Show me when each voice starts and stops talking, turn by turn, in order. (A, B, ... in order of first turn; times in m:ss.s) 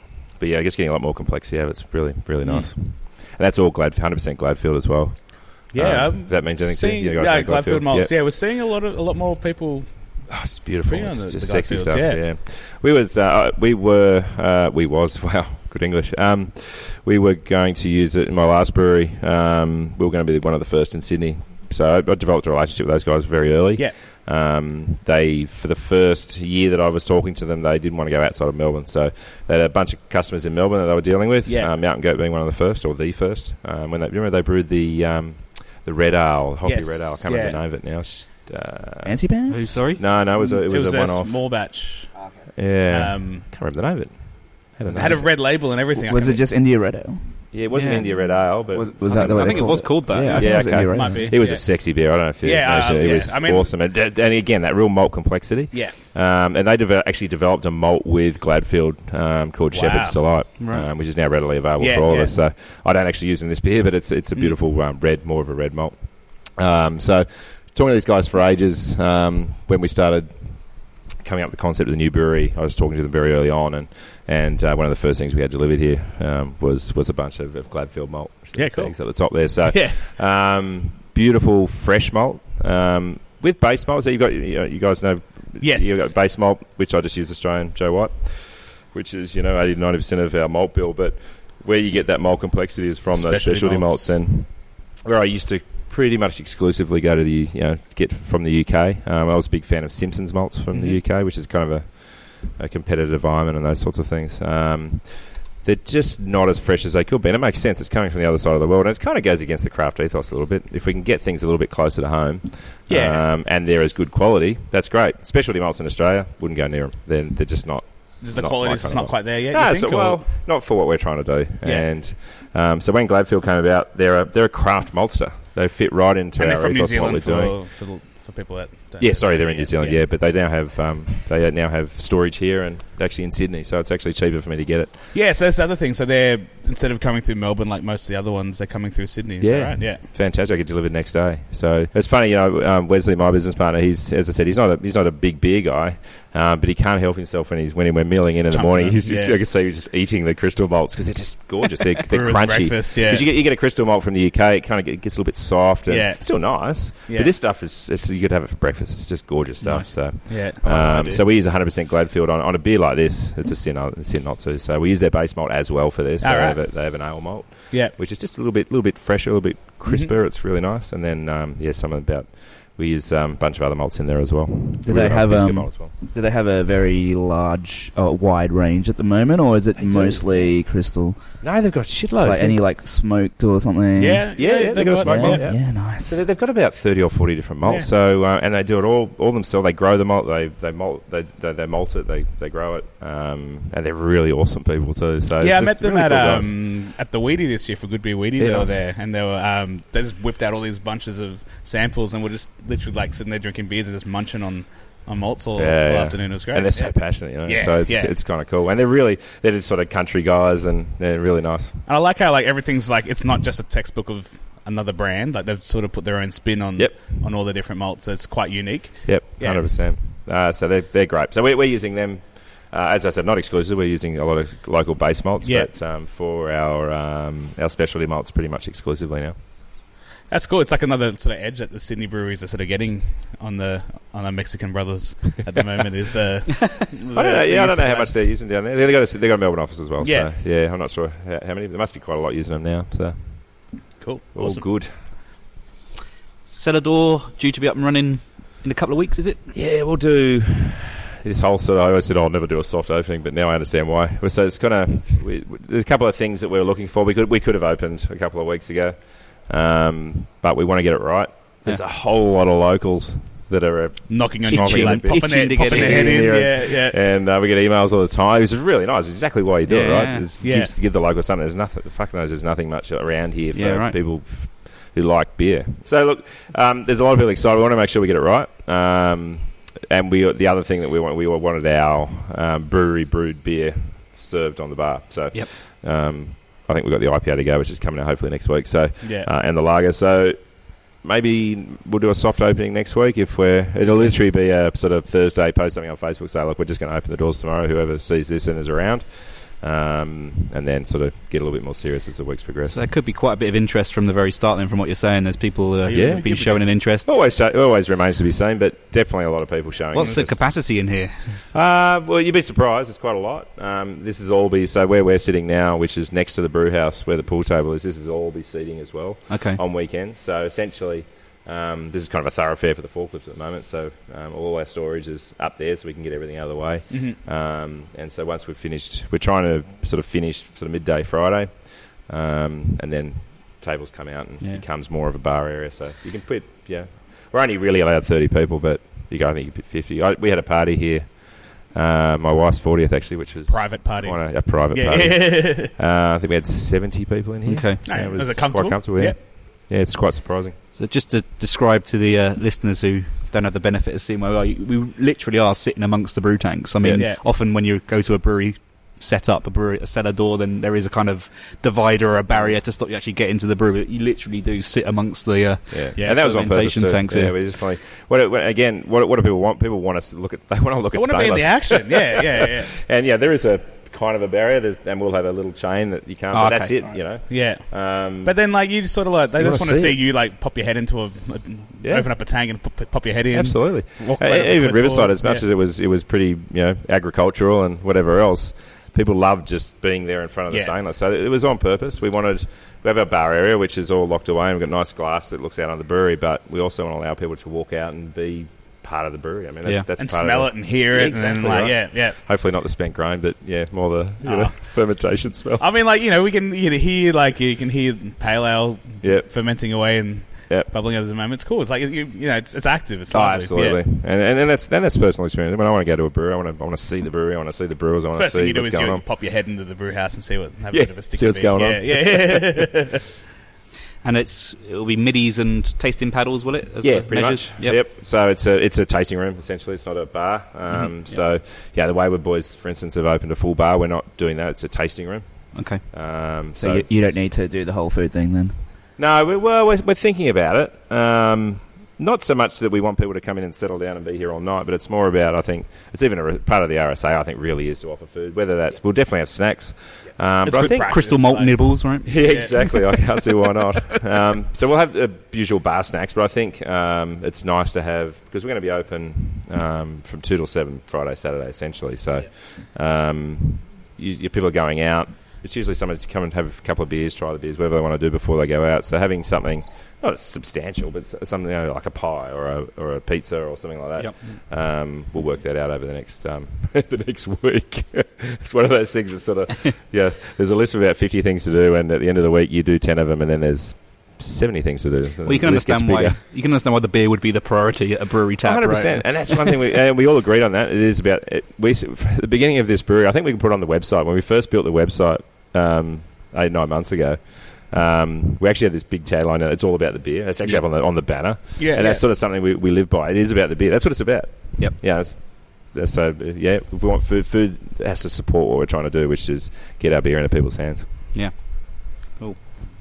0:00.3-0:08.1 A
0:02.4-0:02.7 B
0:05.7-0:12.2 B
0:10.3-0:39.2 A
0:31.4-0:31.7 B
0:36.6-0:37.6 B
0:39.0-0:39.8 C
0:39.5-0:40.0 D
0:39.9-0:41.4 A
0:40.4-0:43.5 B
0:42.5-0:45.3 A
0:44.9-0:46.4 B
0:44.9-0:47.4 C
0:47.5-2:07.6 A
0:47.7-0:48.2 D
0:48.7-0:51.3 C
0:49.0-0:51.0 D
0:50.3-0:53.7 B
0:55.7-0:56.0 B
0:59.7-1:00.4 B
1:00.6-1:00.9 D
1:01.8-1:02.4 B
1:18.5-1:20.0 B
1:25.6-1:26.1 B
1:33.1-1:34.2 B
1:52.9-1:53.2 B
1:58.2-2:00.3 B
2:06.4-2:10.0 B
2:09.0-2:15.0 A
2:15.1-2:20.0 B
2:19.4-2:55.9 A
2:28.3-2:29.4 B
2:32.1-2:33.2 B
2:35.9-2:37.3 B
2:39.6-2:41.1 D
2:40.3-2:41.2 B
2:46.2-2:47.2 B
2:47.7-2:48.0 B
2:49.9-2:50.1 B
2:54.8-3:01.4 C
2:59.8-3:00.5 A
3:01.4-3:02.6 A
3:02.2-3:06.2 C
3:04.0-3:05.5 B
3:04.4-3:16.6 A
3:07.6-3:07.9 B
3:15.4-3:28.1 B
3:18.4-3:18.8 A
3:25.6-3:31.8 A
3:31.9-3:39.7 B
3:36.8-3:37.2 A
3:39.0-3:49.4 A
3:45.4-3:45.7 B
3:50.3-3:58.2 B
3:57.1-4:05.0 A
4:00.0-4:00.3 B
4:04.0-4:04.7 B
4:06.4-4:09.5 D
4:09.5-5:02.8 A
4:24.1-4:27.0 B
4:24.5-4:26.4 D
4:29.7-4:30.3 D
4:30.4-4:30.7 B
4:33.5-4:34.0 D
4:49.0-4:49.3 B
5:02.7-5:07.1 D
5:05.9-5:06.6 B
5:05.9-5:10.6 A
5:09.9-5:11.4 D
5:10.0-5:10.3 B
5:11.5-5:50.6 A
5:19.3-5:19.6 D
5:26.9-5:27.2 B
5:43.5-5:45.7 B
5:47.4-5:47.8 D
5:47.8-5:49.2 B
5:50.7-6:07.4 D
5:57.0-5:57.2 B
6:02.3-6:02.6 A
6:05.7-6:18.4 A
6:10.9-6:12.7 B
6:16.3-6:17.0 D
6:17.3-6:25.4 B
6:19.4-6:20.0 A
6:21.8-6:22.1 A
6:23.3-6:45.8 A
6:40.0-6:42.2 B
6:44.2-6:53.8 B
6:49.0-6:49.6 A
6:53.1-6:59.0 A
6:58.1-7:03.1 B
7:00.7-7:02.7 A
7:04.0-7:07.8 D
7:06.8-7:17.2 A
7:10.7-7:11.2 D
7:15.5-7:15.8 D
7:16.6-7:18.6 C
7:19.0-7:31.0 A
7:30.4-7:32.8 D
7:30.5-7:32.6 B
7:32.0-8:06.2 A
7:54.0-7:54.4 D
8:05.3-8:09.6 D
8:08.4-8:30.9 A
8:21.6-8:22.0 B
8:31.1-8:32.4 D